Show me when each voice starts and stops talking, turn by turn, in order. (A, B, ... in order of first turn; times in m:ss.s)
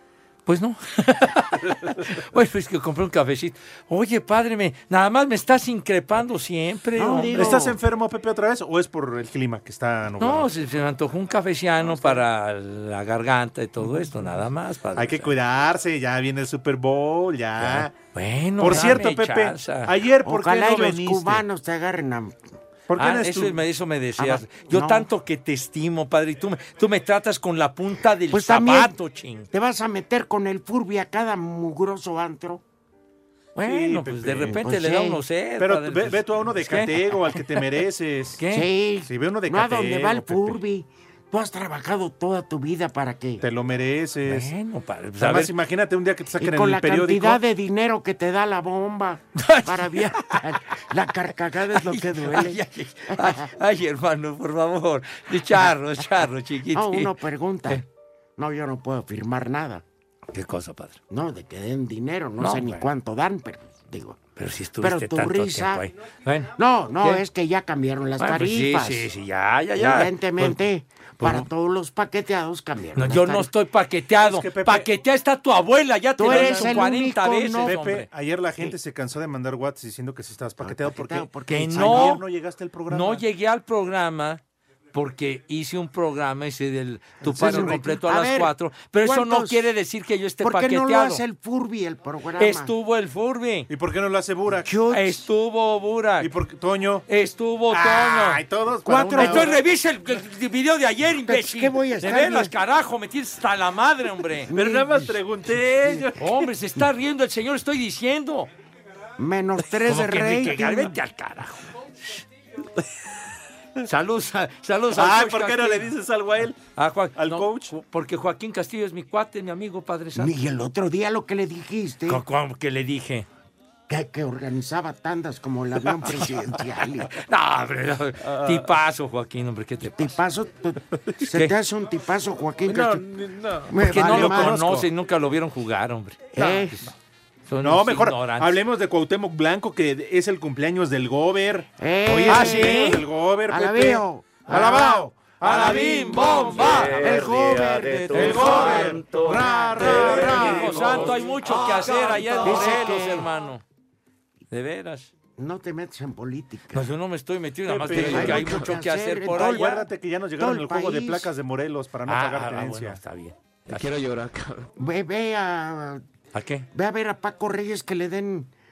0:00.5-0:07.5 A
0:07.0-0:07.8 B
0:07.3-0:10.5 C
0:10.2-0:15.3 A
0:11.8-0:12.2 C
0:15.0-0:18.0 C
0:17.6-0:19.9 A
0:18.6-0:21.4 C
0:20.2-0:22.4 B
0:22.9-0:23.6 C
0:23.0-0:29.5 A
0:24.2-0:25.1 B
0:28.3-0:29.0 B
0:29.5-0:32.6 B
0:33.6-0:37.4 A
0:33.6-0:34.5 C
0:34.4-0:35.2 B
0:35.6-0:38.4 C
0:38.4-0:38.7 A
0:38.5-0:43.4 B
0:39.1-0:40.6 C
0:43.4-0:44.5 C
0:44.3-0:45.5 A
0:45.2-0:47.4 C
0:46.4-0:53.5 B
0:49.4-0:50.4 A
0:51.7-0:57.1 A
0:56.7-0:57.8 B
0:58.4-0:59.8 B
1:00.3-1:01.0 A
1:01.1-1:04.2 B
1:02.4-1:02.8 A
1:04.4-1:06.5 A
1:04.8-1:05.9 B
1:06.6-1:09.1 B
1:08.2-1:10.6 A
1:09.8-1:13.5 B
1:11.2-1:11.5 A
1:13.0-1:18.1 A
1:14.2-1:14.9 C
1:16.2-1:17.8 B
1:16.2-1:16.8 C
1:17.6-1:23.2 C
1:20.6-1:22.2 B
1:21.5-1:22.2 A
1:22.9-1:24.4 A
1:24.9-1:31.2 A
1:27.2-1:29.7 B
1:27.2-1:27.8 C
1:30.4-1:32.7 B
1:32.4-1:33.7 A
1:33.7-1:34.7 C
1:34.6-1:35.3 B
1:34.9-1:36.3 A
1:36.2-1:37.1 C
1:37.1-1:38.4 A
1:37.7-1:39.6 C
1:38.9-1:39.6 B
1:39.2-1:44.5 A
1:41.2-1:42.5 B
1:44.5-1:45.2 B
1:44.5-1:46.4 C
1:45.8-1:46.1 B
1:46.2-1:48.5 A
1:49.2-1:51.0 B
1:49.7-1:52.2 A
1:53.8-1:55.9 A
1:54.9-1:56.6 C
1:56.8-2:00.3 A
1:57.2-1:57.7 C
2:00.2-2:02.2 B
2:02.1-2:03.3 A
2:03.9-2:07.1 B
2:07.1-2:10.1 A
2:09.8-2:13.1 B
2:11.2-2:11.5 A
2:12.8-2:14.9 C
2:13.6-2:16.9 A
2:13.7-2:14.6 B
2:16.3-2:16.8 B
2:17.5-2:18.6 A
2:17.6-2:26.8 C
2:21.8-2:25.0 B
2:22.3-2:23.0 A
2:25.4-2:29.2 A
2:27.0-2:31.1 B
2:28.1-2:31.2 C
2:29.8-2:33.6 A
2:32.4-2:33.3 B
2:34.5-2:35.1 A
2:35.4-2:36.9 B
2:36.7-2:39.7 A
2:37.7-2:38.6 C
2:38.0-2:41.3 B
2:39.3-2:43.0 C
2:42.1-2:44.0 A
2:44.8-2:46.0 B
2:46.3-2:46.7 A
2:46.7-2:48.5 B